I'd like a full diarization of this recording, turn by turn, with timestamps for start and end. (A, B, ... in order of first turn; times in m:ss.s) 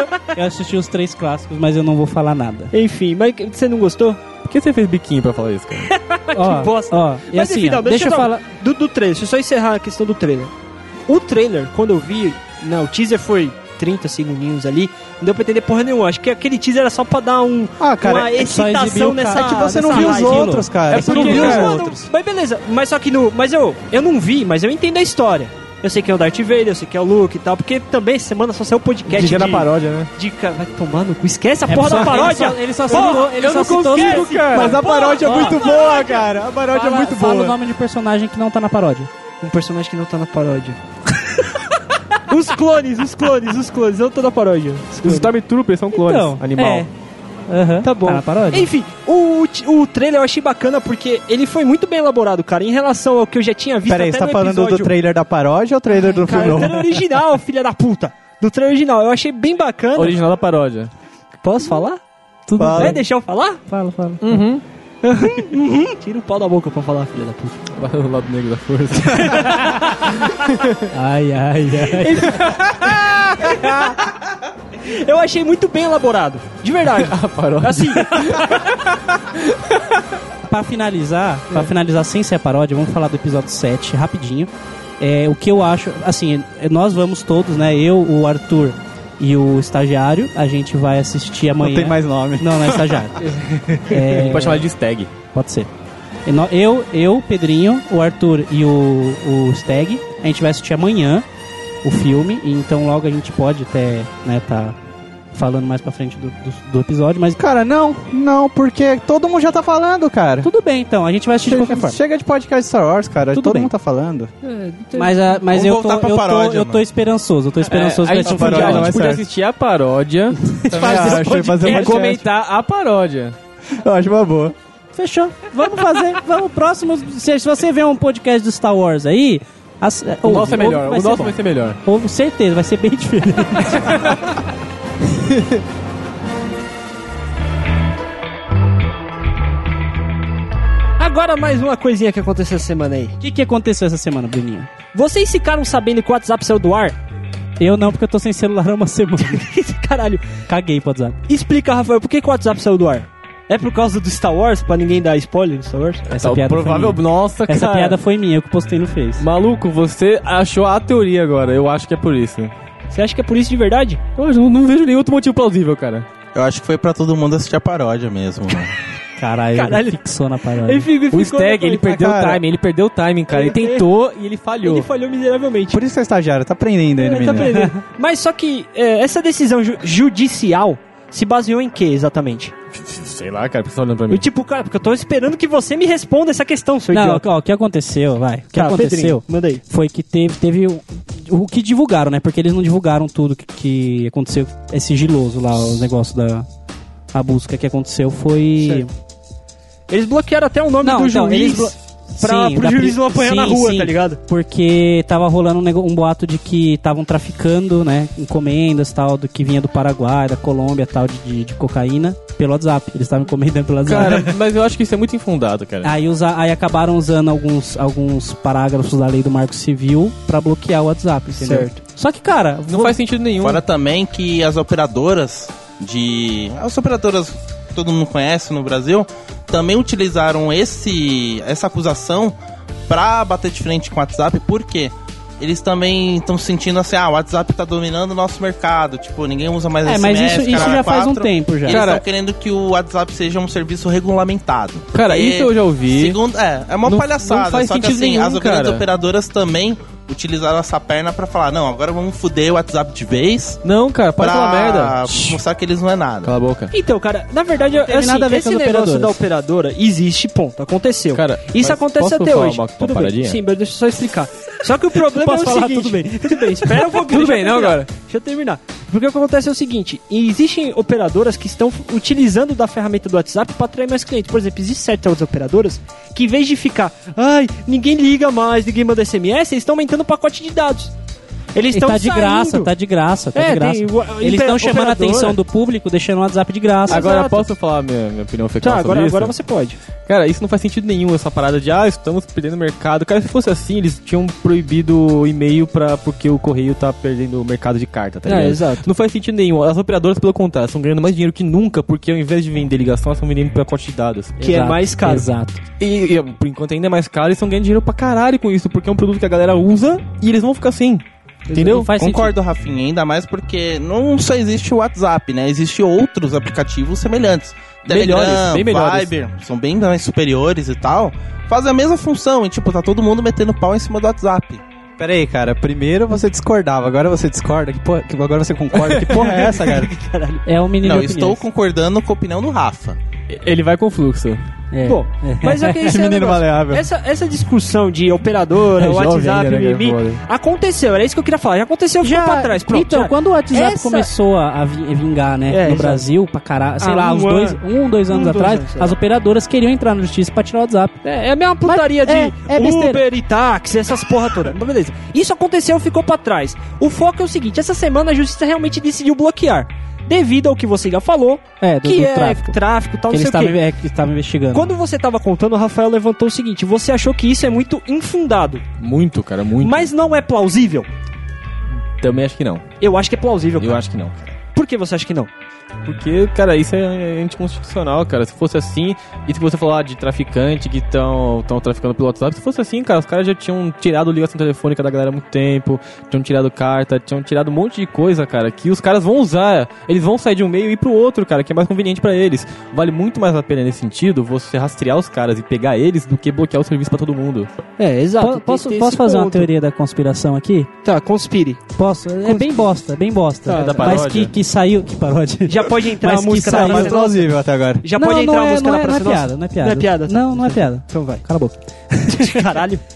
0:00.3-0:02.7 A
0:02.7-0:04.2 B
0:04.4-0:05.9 C
0:05.9-0:10.5 B
0:06.3-0:08.4 A
0:11.1-0:36.3 B
0:17.8-0:18.4 D
0:18.3-0:20.7 A
0:19.3-0:22.0 D
0:20.9-0:21.8 C
0:29.1-0:30.1 C
0:31.7-0:34.5 A
0:32.9-0:34.8 C
0:34.5-0:37.6 D
0:35.2-0:35.6 A
0:36.7-0:39.1 A
0:39.4-0:41.6 B
0:42.3-0:45.3 B
0:45.0-0:46.9 C
0:45.9-0:46.9 A
0:47.5-0:48.7 A
0:47.8-0:54.9 B
0:53.9-0:57.0 D
0:56.1-1:00.2 B
1:00.0-1:00.9 C
1:01.4-1:02.0 B
1:02.5-1:03.0 A
1:02.6-1:03.0 D
1:02.7-1:03.6 B
1:03.7-1:04.3 A
1:04.2-1:04.6 C
1:05.0-1:07.7 B
1:07.8-1:09.5 C
1:09.0-1:10.3 B
1:09.7-1:10.0 A
1:10.3-1:10.8 C
1:10.9-1:12.3 A
1:11.9-1:14.1 B
1:14.8-1:18.7 B
1:16.9-1:19.8 C
1:20.5-1:24.5 A
1:25.0-1:33.3 A
1:31.6-1:32.8 D
1:33.2-1:35.1 C
1:33.9-1:34.7 A
1:35.3-1:35.7 A
1:36.3-1:41.2 A
1:41.8-1:44.8 A
1:45.3-1:47.4 A
1:47.4-1:50.5 D
1:50.4-1:52.0 A
1:51.4-1:54.3 D
1:53.3-1:53.7 A
1:54.4-1:55.2 B
1:54.9-1:59.0 A
1:55.5-1:56.8 E
1:57.6-2:00.4 C
1:58.2-1:59.2 D
2:00.5-2:02.0 A
2:00.7-2:02.2 D
2:01.6-2:03.4 C
2:03.7-2:04.5 D
2:05.0-2:14.1 A
2:10.2-2:11.8 C
2:13.8-2:14.1 C
2:15.3-2:15.6 C
2:21.0-2:23.2 B
2:23.2-2:24.7 A
2:24.9-2:27.0 B
2:27.6-2:29.4 A
2:29.2-2:30.3 B
2:30.5-2:31.2 A
2:31.3-2:36.1 B
2:36.1-2:39.2 A
2:36.2-2:38.0 C
2:39.2-2:42.5 C
2:42.9-2:44.0 B
2:44.2-2:46.1 C
2:46.3-2:48.7 E
2:49.2-2:50.9 A
2:49.5-2:50.0 B
2:50.6-2:51.9 B
2:51.1-2:54.9 C
2:51.9-2:52.4 D
2:53.3-2:53.9 B
2:54.6-2:55.8 B
2:55.7-2:57.6 D
2:57.0-3:02.5 B
3:02.7-3:04.2 C
3:04.1-3:07.2 B
3:06.9-3:16.5 A
3:08.6-3:09.6 B
3:17.1-3:18.9 A
3:18.6-3:18.8 B
3:19.9-3:24.2 B
3:20.8-3:34.3 A
3:33.9-3:35.9 C
3:35.8-3:42.9 A
3:41.4-3:41.8 B
3:42.7-3:43.6 C
3:43.4-3:52.4 E
3:52.9-4:13.6 E
3:59.8-4:01.9 A
4:01.7-4:02.0 C
4:04.9-4:06.2 C
4:06.8-4:08.9 C
4:13.6-4:15.4 C
4:14.2-4:16.3 E
4:16.2-4:16.7 C
4:16.7-4:40.9 B
4:17.8-4:19.2 A
4:21.1-4:23.4 C
4:25.0-4:26.8 A
4:26.9-4:27.9 C
4:41.6-4:42.7 B
4:41.7-4:47.0 A
4:43.3-4:45.4 B
4:46.9-4:47.5 B
4:46.9-4:49.3 C
4:48.6-4:49.8 B
4:50.1-5:04.4 C
4:58.2-4:58.8 B
5:04.4-5:05.3 B
5:04.4-5:05.6 A
5:05.8-5:11.9 C
5:11.5-5:11.8 B
5:11.6-5:12.4 A
5:11.9-5:24.6 E
5:17.9-5:19.1 C
5:25.0-5:29.9 D
5:29.0-5:30.5 B
5:30.5-5:31.4 A
5:30.8-5:33.0 E
5:33.3-5:34.4 C
5:34.7-5:35.8 A
5:34.8-5:44.1 B
5:35.8-5:36.9 D
5:38.8-5:40.2 C
5:42.0-5:51.0 A
5:45.5-5:46.0 B
5:46.8-5:49.0 B
5:51.0-6:03.6 B
5:51.6-5:53.0 A
6:01.6-6:02.6 A
6:03.1-6:04.7 A
6:04.5-6:08.6 B
6:08.8-6:09.9 C
6:09.6-6:10.9 B
6:12.0-6:12.6 C
6:12.8-6:13.8 B
6:13.6-6:14.3 C
6:14.5-6:15.3 B
6:15.8-6:37.5 C
6:37.8-6:39.5 B
6:38.2-6:40.7 A
6:40.8-6:41.6 B
6:41.8-6:47.0 A
6:42.2-6:42.6 B
6:43.4-6:44.1 B
6:43.5-6:44.3 C
6:45.5-6:51.2 B
6:46.5-6:47.8 D
6:47.9-6:52.4 A
6:52.1-6:52.8 B